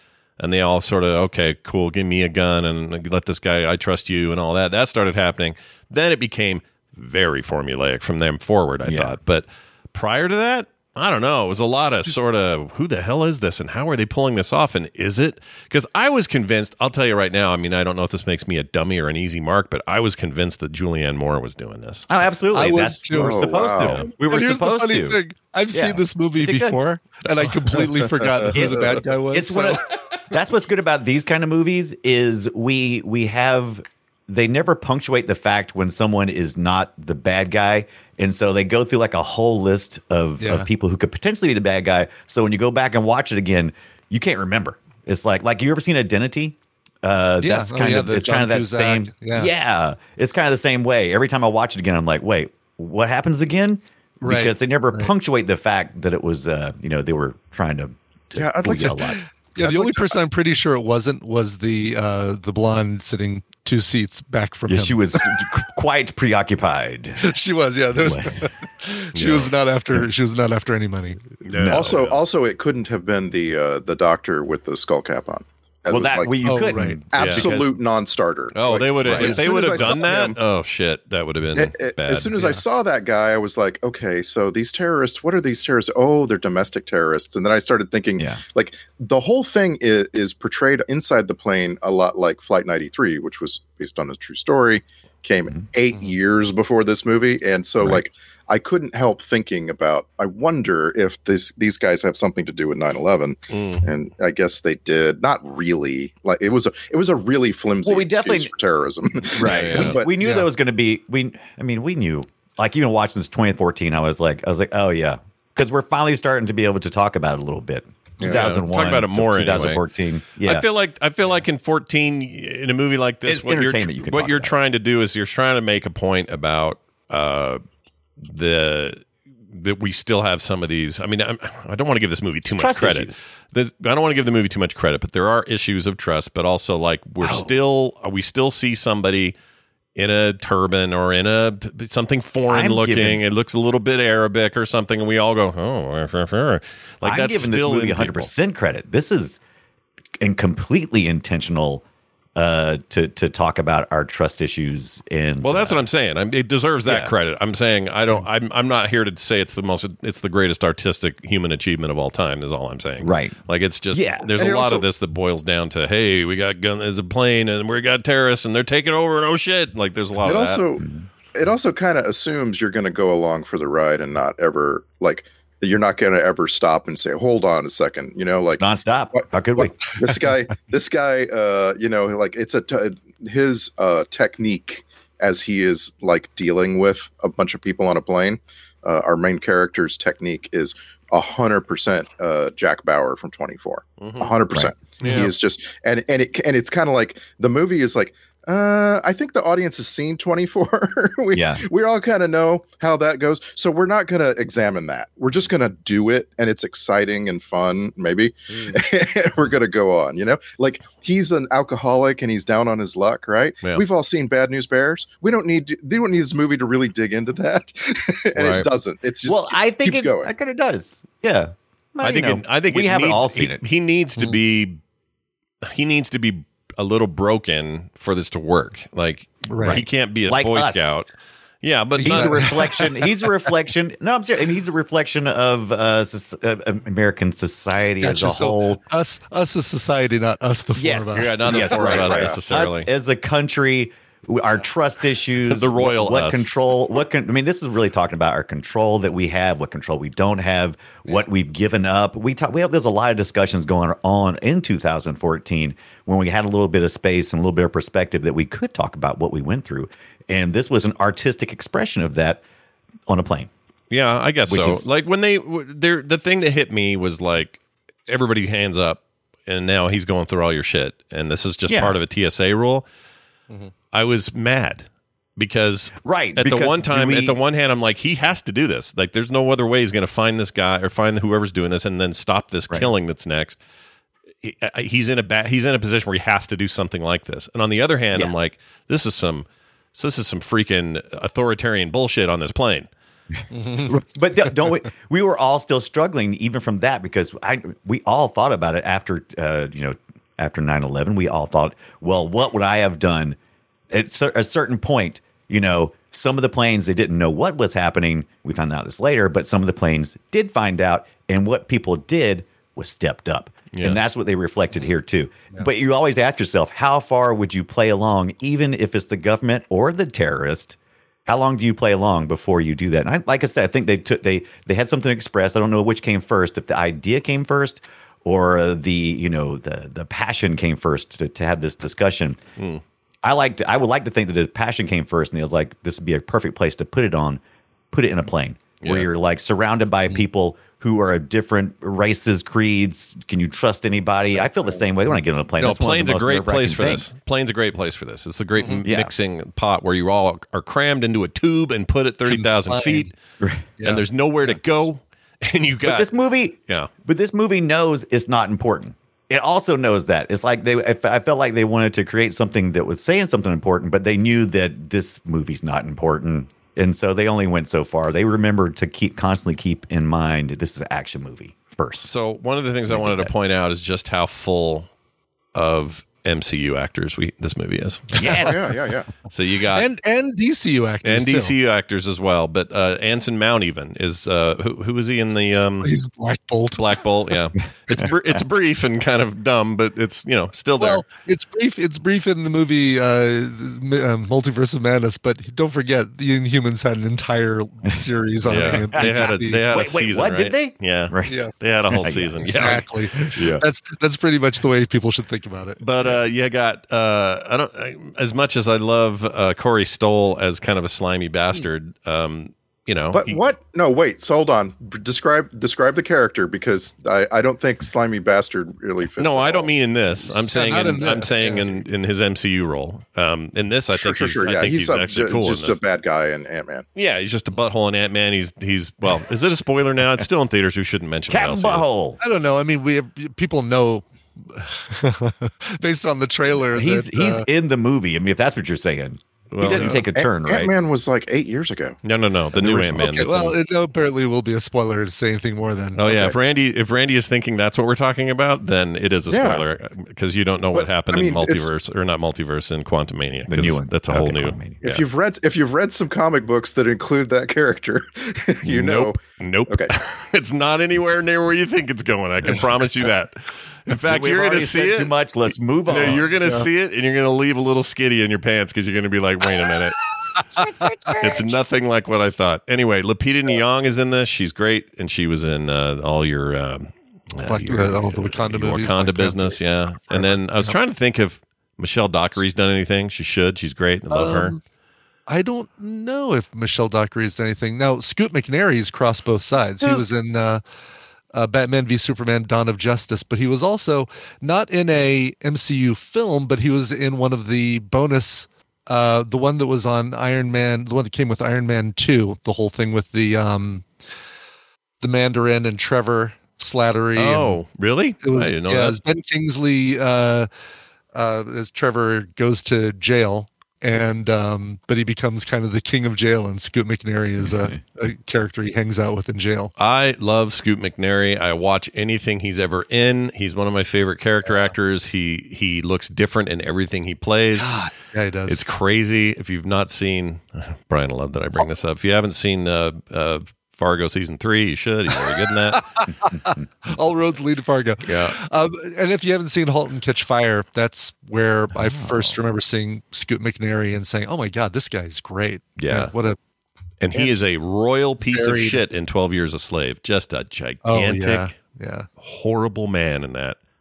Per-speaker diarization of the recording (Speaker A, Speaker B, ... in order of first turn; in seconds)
Speaker A: 0.4-22.1, 23.8-24.1, 69.1-69.5, 71.5-72.2, 77.2-77.7, 78.5-82.3, 103.5-103.8, 109.4-110.0, 118.2-119.8, 120.4-127.6, 128.2-139.3, 140.0-148.3, 155.4-170.6, 194.0-194.3, 218.3-218.7, 222.0-224.8, 225.6-231.1, 231.6-232.7, 241.1-242.9, 245.4-246.5, 263.9-272.9, 273.9-274.9, 275.4-283.6, 284.4-292.9, 313.7-314.0, 338.8-339.1, 345.6-353.1, 353.8-356.1, 372.0-374.9, 375.5-378.2, 379.3-379.9, 381.0-385.9, 386.8-391.1, 398.5-402.9, 405.8-413.4, 419.2-425.8, 427.0-431.9, 439.5-440.0, 442.0-443.6, 446.0-455.0, 458.6-465.1, 465.9-470.0, 471.2-484.6, 507.2-509.0, 519.8-527.7, 528.5-535.9, 538.1-538.4, 545.8-546.1, 547.0-551.5, 552.2-553.6
Speaker B: 8.8-9.2, 22.1-25.2, 25.7-26.8, 28.5-59.2, 64.7-67.2, 68.0-68.5, 71.5-72.0, 75.9-77.7, 107.8-108.5, 109.3-120.7, 123.3-124.6, 132.5-133.2, 137.2-137.5, 142.5-143.2, 147.0-149.4, 150.2-151.8, 152.4-155.8, 156.9-157.1, 163.0-163.4, 163.9-164.3, 178.5-179.8, 201.3-201.6, 219.2-223.6, 229.6-230.9, 232.0-238.8, 240.8-262.4, 263.1-263.5, 264.5-264.9, 271.7-272.0, 276.0-277.4, 293.8-303.4, 303.9-332.4, 333.2-347.1, 348.9-349.1, 353.4-353.7, 355.8-372.1, 372.9-373.3, 398.6-401.4, 401.9-403.6, 431.3-432.2, 436.7-440.7, 453.5-454.8, 464.1-466.3, 470.5-471.6, 517.5-517.8, 541.8-542.3
Speaker C: 22.5-29.8, 40.4-40.7, 47.4-49.5, 54.2-55.1, 58.8-65.4, 67.2-71.2, 76.5-77.0, 79.2-79.5, 110.2-110.5, 195.0-195.3, 229.5-229.8, 232.0-232.9, 238.0-241.4, 293.5-294.0, 352.3-353.1, 353.8-354.6, 379.8-381.5, 385.8-387.0, 390.8-399.6, 401.3-405.8, 420.3-421.7, 432.2-437.5, 439.8-440.0, 442.6-446.1, 466.4-466.7, 470.4-471.2, 477.5-480.8, 484.1-484.6, 485.3-490.6, 491.3-503.9, 505.0-507.6, 508.2-510.5, 511.1-519.7, 527.6-528.6, 535.8-546.4, 548.2-548.8, 550.8-552.1
Speaker D: 23.1-24.0, 58.4-59.0, 59.6-60.2, 71.7-76.3, 77.1-80.4, 81.5-110.1, 118.2-118.5, 164.4-164.9, 170.2-178.6, 179.2-220.3, 241.7-242.4, 378.2-379.1, 413.1-419.7, 423.9-426.9, 440.1-442.0, 446.1-446.4, 449.3-449.6, 450.7-451.7, 454.8-459.9